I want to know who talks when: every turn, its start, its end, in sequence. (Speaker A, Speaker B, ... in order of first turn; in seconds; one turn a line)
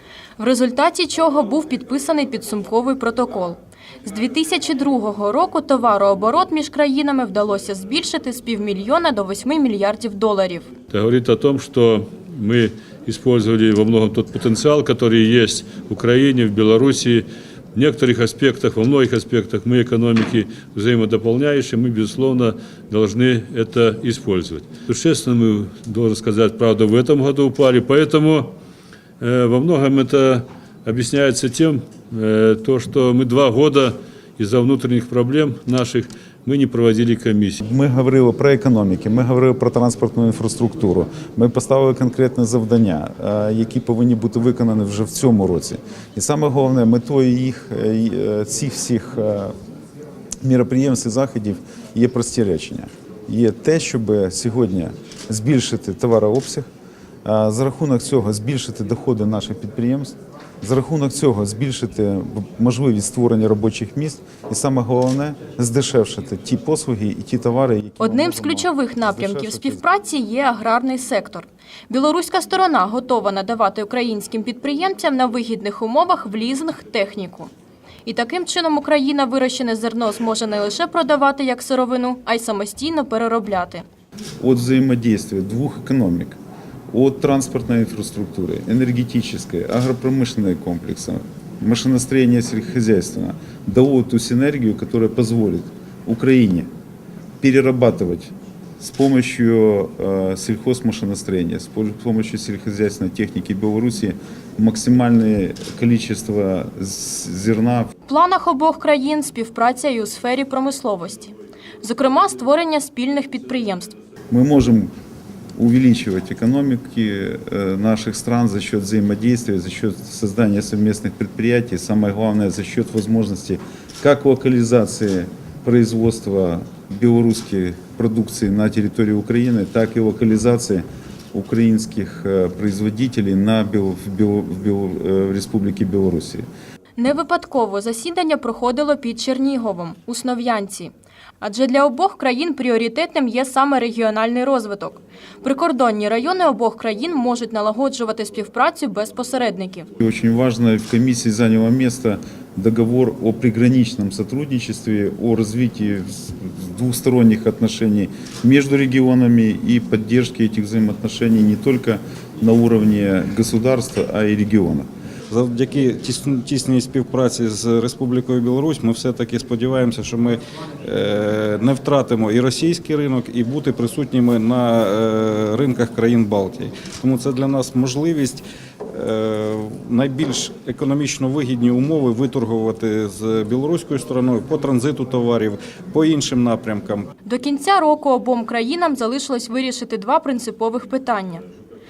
Speaker A: 0.4-10.7
Speaker B: 10.9-28.5
Speaker B: 29.2-37.6
Speaker C: 37.6-49.5
Speaker C: 50.4-56.7
Speaker C: 57.2-69.8
Speaker A: 68.0-77.5
Speaker A: 78.0-83.8
Speaker C: 84.4-86.4
Speaker C: 86.9-96.7
Speaker C: 97.4-107.9
Speaker A: 108.1-114.0
Speaker C: 114.3-114.9
Speaker C: 115.6-136.4
Speaker A: 137.0-149.9
Speaker C: 150.0-164.9
Speaker D: 165.3-187.1
Speaker A: 187.2-191.4